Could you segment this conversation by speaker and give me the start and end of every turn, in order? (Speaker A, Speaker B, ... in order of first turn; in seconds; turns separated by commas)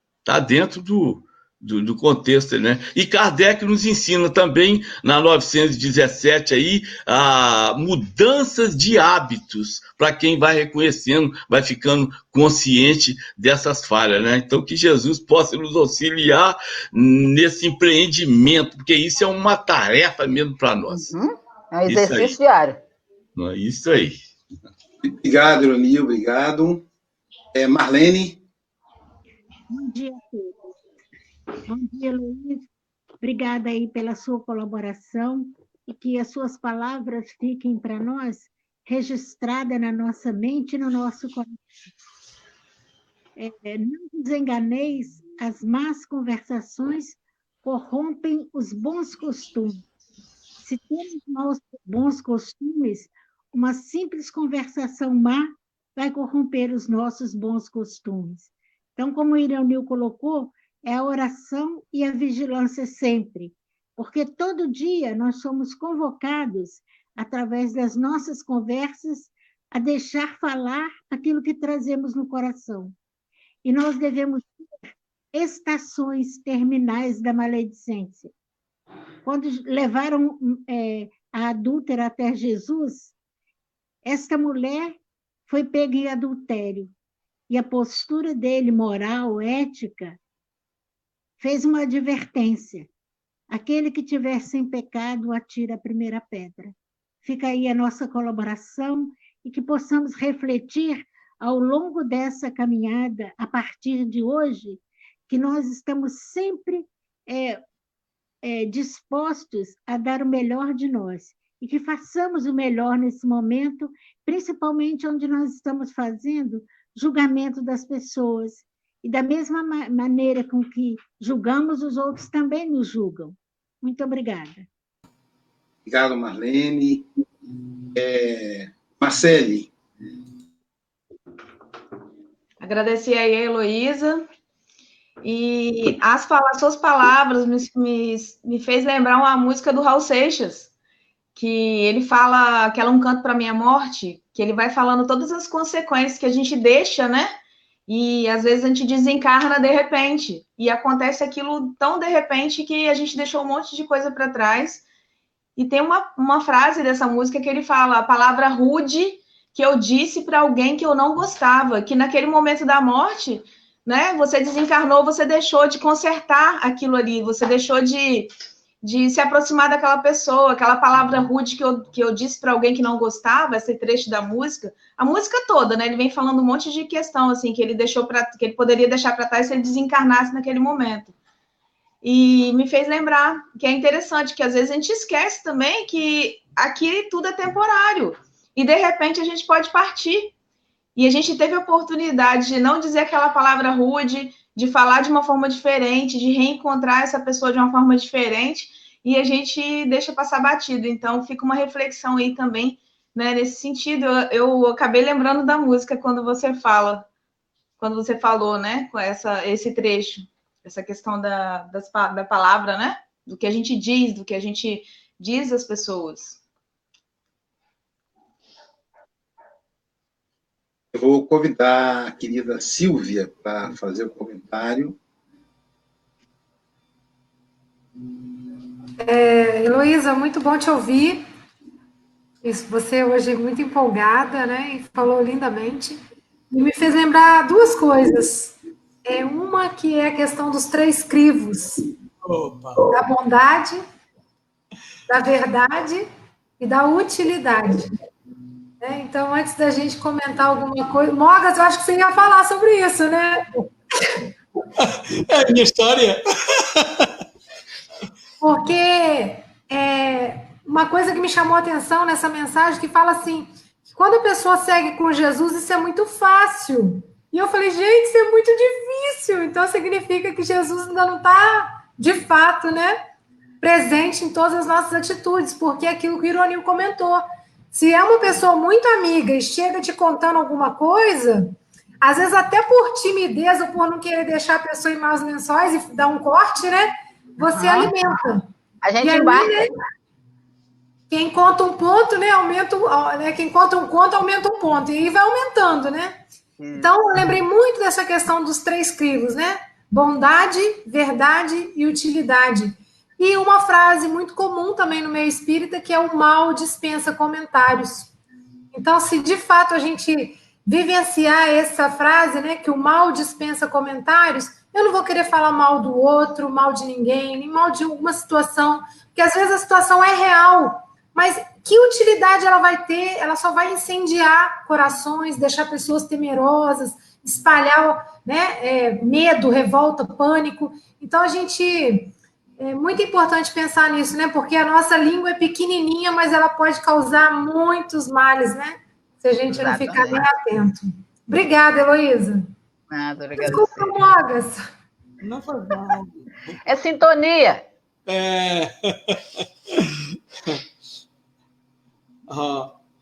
Speaker A: 0.2-21.1, Speaker B: 20.9-22.8, Speaker A: 21.9-22.4, Speaker A: 23.4-24.2, Speaker C: 25.0-26.9, Speaker C: 27.5-28.4, Speaker D: 29.7-30.7, Speaker D: 31.7-32.7, Speaker D: 33.2-41.6, Speaker D: 43.4-49.9, Speaker D: 50.6-72.9, Speaker D: 73.6-78.3, Speaker D: 79.2-83.1, Speaker D: 84.0-85.0, Speaker D: 85.5-86.9, Speaker D: 87.5-90.2, Speaker D: 91.4-92.9, Speaker D: 93.5-107.6, Speaker D: 108.4-124.7, Speaker C: 125.8-127.1, Speaker C: 127.9-129.7, Speaker E: 132.6-134.3, Speaker E: 135.2-140.7, Speaker E: 141.4-147.3, Speaker E: 147.9-154.8, Speaker E: 155.6-181.1, Speaker E: 182.0-190.3, Speaker E: 190.9-207.1, Speaker E: 207.8-216.4, Speaker C: 220.9-225.0, Speaker F: 229.0-231.2, Speaker F: 232.4-236.0, Speaker F: 236.5-241.8, Speaker G: 242.2-242.9, Speaker F: 242.9-243.8, Speaker F: 245.1-246.1, Speaker F: 246.6-247.9, Speaker F: 248.8-253.4, Speaker G: 254.8-257.2, Speaker F: 258.4-272.9, Speaker F: 273.6-288.5, Speaker B: 287.4-287.9, Speaker B: 288.8-289.7, Speaker F: 289.0-289.7, Speaker F: 291.1-296.2, Speaker B: 296.6-296.9, Speaker F: 296.8-308.1, Speaker F: 308.7-342.5, Speaker B: 339.5-340.2, Speaker B: 342.9-343.9, Speaker F: 343.4-344.6, Speaker G: 345.2-346.6, Speaker B: 346.6-347.6, Speaker G: 348.1-350.6, Speaker G: 352.3-352.8